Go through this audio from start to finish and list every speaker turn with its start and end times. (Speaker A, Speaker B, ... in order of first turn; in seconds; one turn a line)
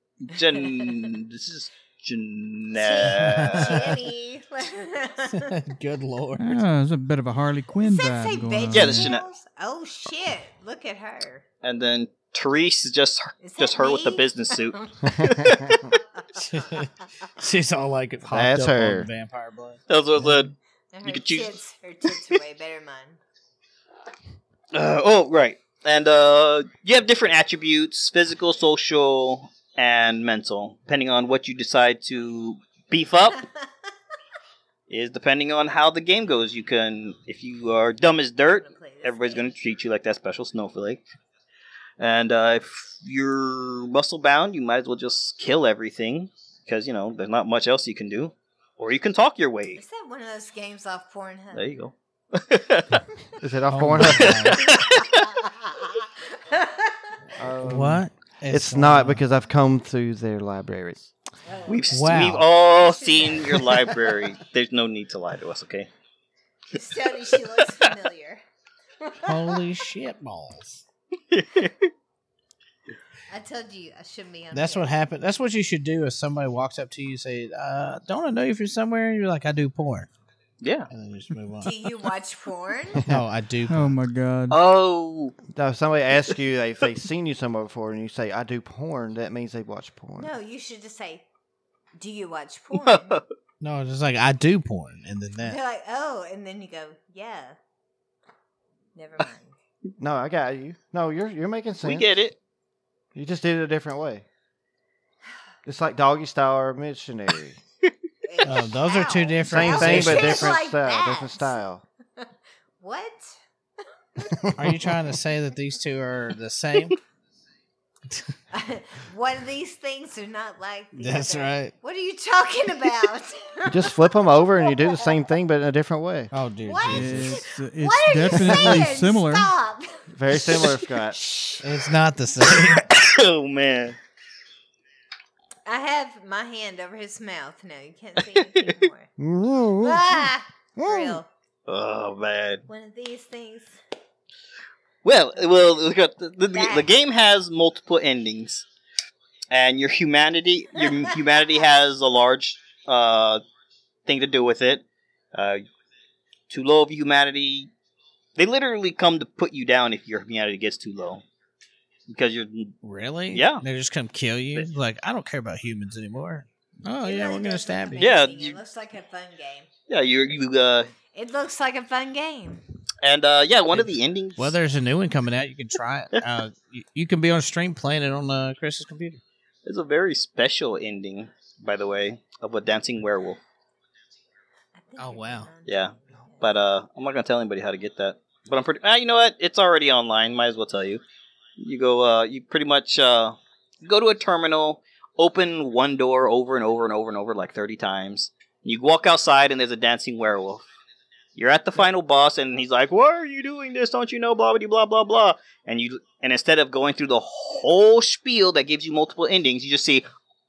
Speaker A: 0.2-4.0
Speaker B: 2.7-5.5
Speaker C: 3.2-3.9
Speaker C: 5.3-6.6
Speaker D: 6.4-9.1
Speaker B: 7.8-11.4
Speaker A: 8.7-9.2
Speaker A: 11.6-16.0
Speaker B: 13.4-15.3
Speaker C: 16.3-19.8
Speaker B: 16.4-16.7
Speaker E: 18.3-19.1
Speaker A: 19.9-21.6
Speaker B: 20.9-23.2
Speaker A: 24.7-33.4
Speaker A: 34.9-41.1
Speaker B: 38.5-39.5
Speaker A: 42.0-49.8
Speaker B: 49.8-51.7
Speaker A: 51.5-53.0
Speaker E: 53.4-54.5
Speaker C: 53.7-54.6
Speaker A: 54.1-55.3
Speaker B: 55.3-57.2
Speaker E: 57.3-61.1
Speaker C: 57.6-59.2
Speaker B: 61.4-64.0
Speaker A: 61.7-65.9
Speaker C: 61.9-62.5
Speaker B: 66.7-68.4
Speaker A: 67.6-67.9
Speaker B: 69.0-69.6
Speaker C: 69.2-70.8
Speaker A: 71.3-71.9
Speaker B: 73.3-74.9
Speaker C: 74.5-80.1
Speaker A: 80.6-80.9
Speaker C: 80.9-81.7
Speaker B: 81.6-83.0
Speaker C: 83.1-83.9
Speaker D: 83.7-84.6
Speaker A: 84.5-85.4
Speaker E: 85.5-90.3
Speaker B: 90.2-91.2
Speaker B: 92.0-93.2
Speaker A: 92.7-93.2
Speaker C: 93.6-95.6
Speaker B: 95.4-97.6
Speaker B: 98.9-99.5
Speaker E: 100.0-102.1
Speaker A: 101.8-102.3
Speaker E: 103.1-104.2
Speaker E: 105.6-107.6
Speaker B: 108.2-111.5
Speaker C: 108.4-110.5
Speaker E: 109.4-111.8
Speaker B: 112.8-113.4
Speaker B: 114.2-114.5
Speaker E: 114.2-115.0
Speaker C: 114.5-117.0
Speaker B: 118.5-125.2
Speaker C: 121.0-121.7
Speaker E: 123.7-126.3
Speaker C: 126.3-127.4
Speaker B: 126.6-131.9
Speaker D: 126.9-129.5
Speaker E: 130.1-131.2
Speaker C: 131.6-132.9
Speaker A: 132.4-134.0
Speaker B: 135.7-139.1
Speaker A: 138.4-138.7
Speaker E: 139.2-141.2
Speaker B: 139.8-141.3
Speaker A: 141.7-142.6
Speaker B: 142.7-143.8
Speaker A: 145.0-148.7
Speaker B: 146.5-146.9
Speaker A: 149.5-153.4
Speaker A: 154.1-155.6
Speaker A: 156.5-157.7
Speaker A: 158.3-161.2
Speaker A: 162.1-162.7
Speaker C: 162.8-168.1
Speaker A: 163.3-163.6
Speaker B: 167.0-169.7
Speaker A: 167.9-168.6
Speaker A: 169.9-170.9
Speaker B: 171.1-172.6
Speaker A: 173.0-174.6
Speaker C: 173.7-179.2
Speaker A: 179.6-183.4
Speaker B: 184.8-186.4
Speaker C: 185.0-185.5
Speaker A: 185.7-191.0
Speaker A: 191.6-200.7
Speaker A: 201.3-210.1